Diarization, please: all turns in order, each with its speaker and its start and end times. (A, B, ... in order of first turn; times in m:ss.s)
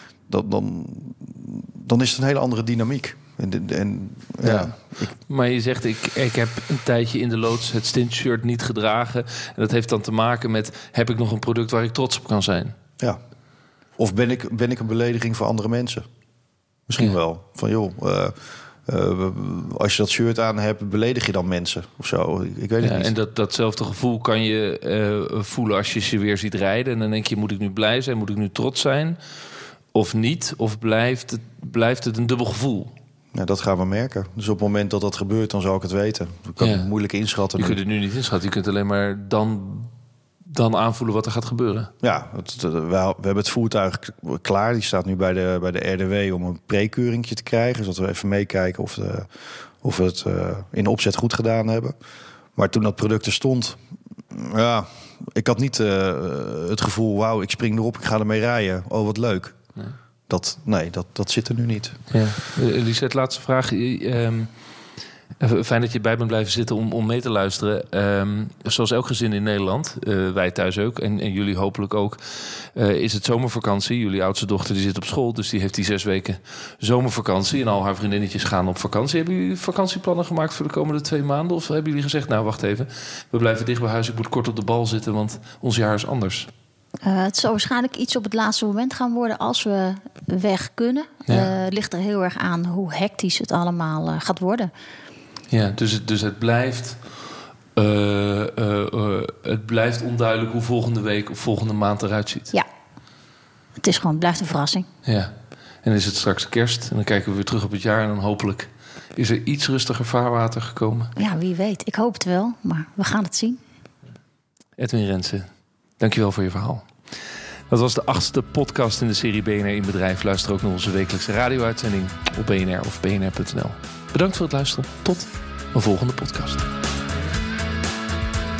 0:00.3-0:05.1 A
0:04.4-0:04.7 B
0:05.3-0:12.7 B
0:14.0-0:16.1 A
0:16.9-0:23.1 A
0:22.8-0:29.2 B
0:29.9-0:32.9 B
0:33.3-0:37.8 A
0:36.6-0:36.9 B
0:37.6-0:39.9 B
0:40.4-0:41.9 B
0:42.0-0:49.3 A
0:49.8-0:51.9 A
0:52.6-0:53.8 A
0:54.3-0:59.6 A
1:00.3-1:02.2 A
1:02.1-1:04.5 B
1:05.4-1:26.5 B
1:27.0-1:34.7 C
1:35.5-1:37.0 B
1:37.8-1:42.5 B
1:43.8-1:44.9 C
1:45.0-1:45.3 B
1:45.8-1:51.1 B
1:51.2-1:53.6 C
1:54.8-1:56.9 B
1:57.7-2:06.6 B